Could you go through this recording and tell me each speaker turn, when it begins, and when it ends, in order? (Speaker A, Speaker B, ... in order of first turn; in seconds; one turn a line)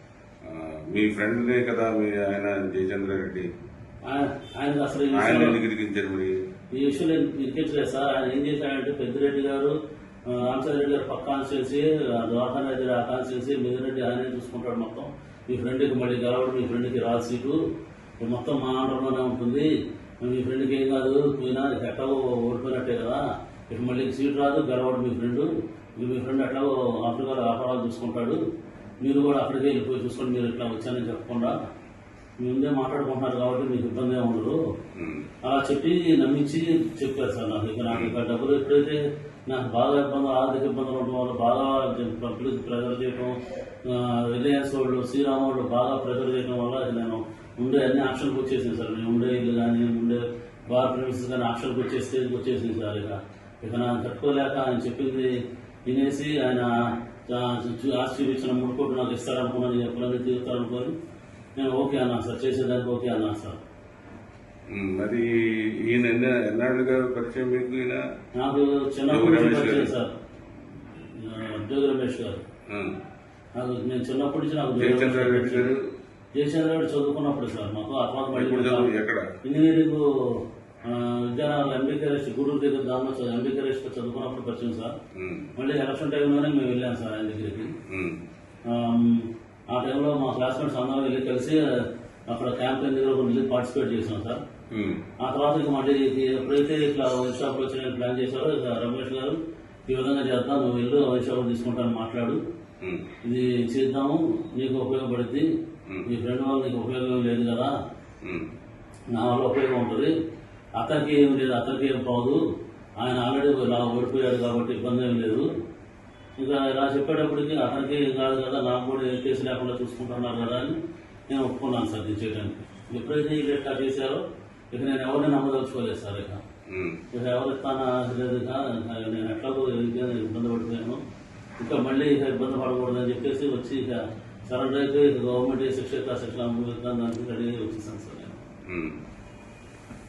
Speaker A: 0.4-3.5
Speaker B: 4.1-5.6
Speaker A: 5.1-6.4
Speaker B: 6.7-9.7
Speaker B: 10.3-17.6
Speaker B: 18.2-19.7
Speaker B: 20.2-28.4
Speaker B: 29.0-31.6
Speaker B: 32.4-34.6
Speaker A: 34.9-35.2
Speaker B: 35.4-55.3
Speaker A: 37.9-38.1
Speaker B: 55.9-60.9
Speaker B: 61.6-63.6
Speaker A: 64.7-68.0
Speaker B: 68.3-70.1
Speaker A: 69.1-69.9
Speaker B: 70.9-72.4
Speaker A: 72.7-72.9
Speaker B: 73.5-75.7
Speaker A: 74.8-75.8
Speaker B: 76.3-78.9
Speaker A: 78.3-79.3
Speaker B: 79.4-85.0
Speaker A: 85.1-85.5
Speaker B: 85.6-87.7
Speaker A: 87.9-88.2
Speaker B: 88.7-94.4
Speaker A: 94.7-95.0
Speaker B: 95.2-102.4
Speaker B: 103.2-105.5
Speaker B: 106.1-107.7
Speaker B: 109.1-110.1
Speaker B: 110.8-112.4
Speaker B: 113.0-115.5
Speaker B: 116.4-120.8
Speaker B: 121.3-126.4
Speaker A: 126.7-127.0
Speaker B: 127.1-131.0
Speaker B: 131.6-138.4
Speaker A: 138.7-139.0